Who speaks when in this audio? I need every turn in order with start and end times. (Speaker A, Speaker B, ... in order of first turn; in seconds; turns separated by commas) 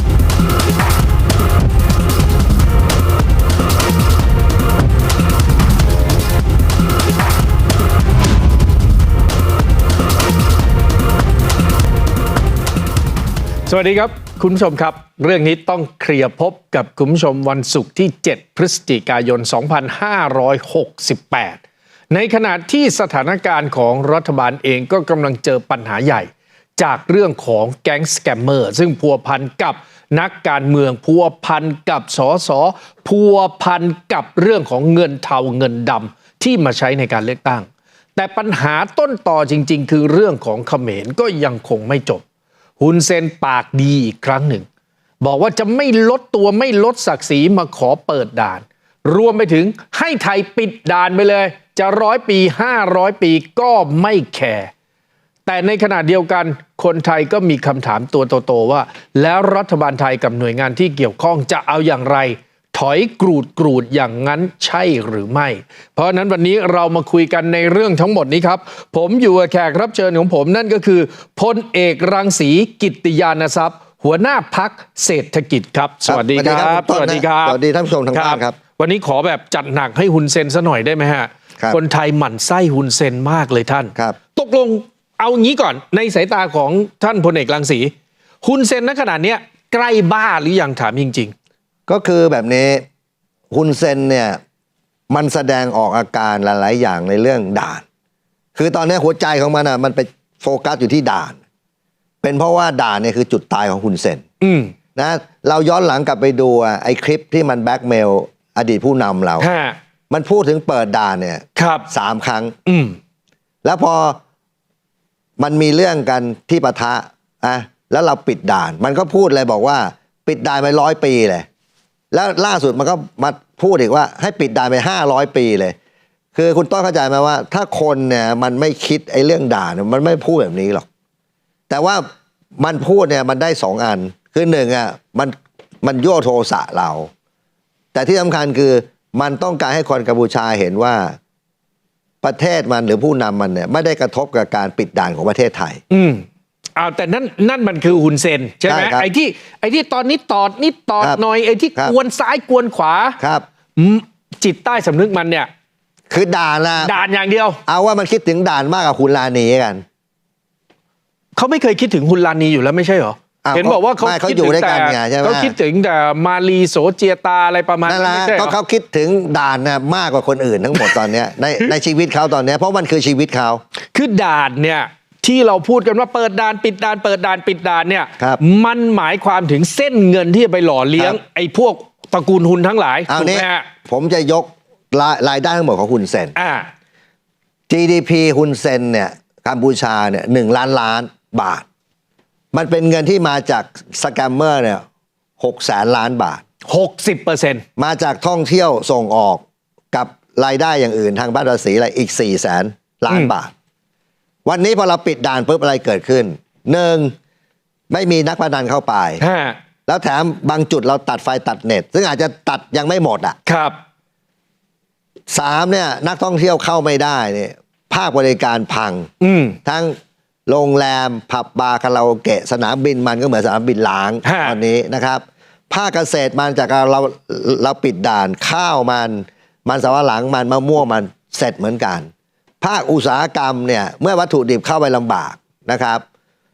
Speaker A: 13.7-21.6, Speaker A: 22.1-42.2, Speaker A: 42.8-44.7, Speaker A: 45.2-54.7, Speaker A: 55.5-77.6, Speaker B: 76.1-78.6, Speaker A: 78.1-87.9, Speaker A: 88.4-91.3, Speaker B: 91.9-92.8, Speaker B: 93.5-94.4, Speaker B: 95.1-97.8, Speaker B: 98.5-101.4, Speaker B: 102.2-104.2, Speaker A: 104.4-104.7, Speaker B: 105.0-109.5, Speaker A: 109.4-109.8, Speaker B: 110.1-112.5, Speaker A: 111.5-111.9, Speaker A: 112.7-113.0, Speaker B: 113.6-114.2, Speaker B: 115.4-121.4, Speaker B: 122.1-125.8, Speaker B: 126.3-130.8, Speaker B: 131.7-132.1, Speaker B: 132.6-137.1, Speaker B: 137.9-141.2, Speaker B: 142.2-145.8, Speaker A: 145.9-146.2, Speaker A: 146.8-153.2, Speaker B: 148.7-149.1, Speaker B: 153.2-153.4, Speaker A: 153.8-155.5, Speaker B: 156.1-156.9, Speaker A: 156.8-157.6, Speaker B: 157.7-159.8, Speaker A: 161.3-168.5, Speaker B: 163.4-165.5, Speaker B: 167.8-173.6, Speaker A: 170.8-171.0, Speaker A: 173.9-183.7, Speaker B: 183.1-186.3, Speaker A: 186.3-186.7, Speaker B: 187.7-191.6, Speaker B: 192.5-194.8, Speaker B: 195.4-196.4, Speaker A: 196.7-197.6, Speaker B: 197.8-203.5, Speaker B: 204.4-207.1, Speaker B: 207.9-209.2, Speaker A: 209.2-209.6, Speaker B: 209.9-213.4, Speaker A: 213.4-213.8, Speaker B: 215.3-219.1, Speaker A: 219.2-219.6, Speaker B: 219.6-219.9, Speaker B: 220.5-232.1, Speaker A: 224.2-224.6, Speaker B: 232.6-236.0